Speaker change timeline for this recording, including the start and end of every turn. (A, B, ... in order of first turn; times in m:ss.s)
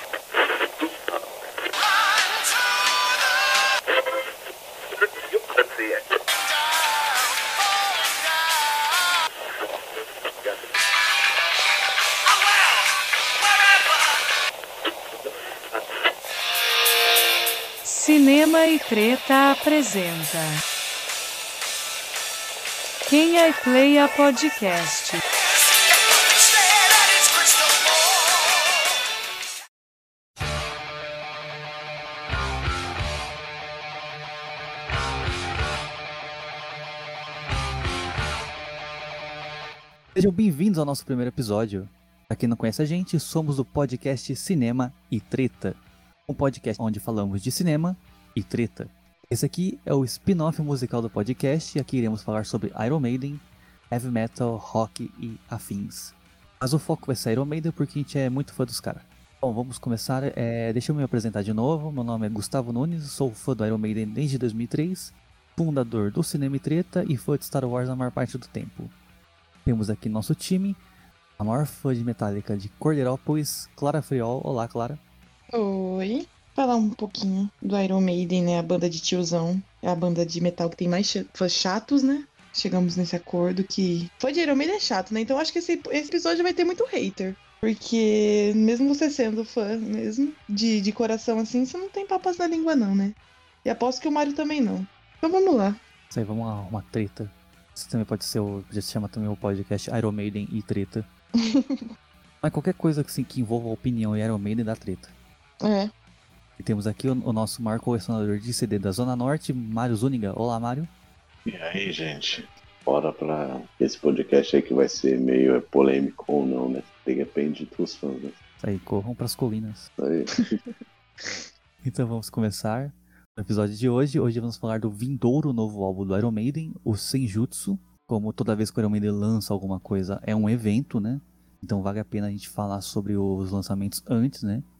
0:17.8-0:20.6 A
0:23.0-0:25.2 A
0:40.1-1:08.9 B
1:09.6-1:10.8 B
1:11.4-1:15.0 B
1:15.5-1:35.8 C
1:36.1-1:41.0 B
1:41.4-1:41.8 C
1:42.4-1:45.1 B
1:45.6-1:45.9 C
1:46.6-1:50.9 B
1:51.4-1:58.4 D
1:58.6-1:59.9 B
2:00.0-2:00.6 D
2:01.8-2:14.6 B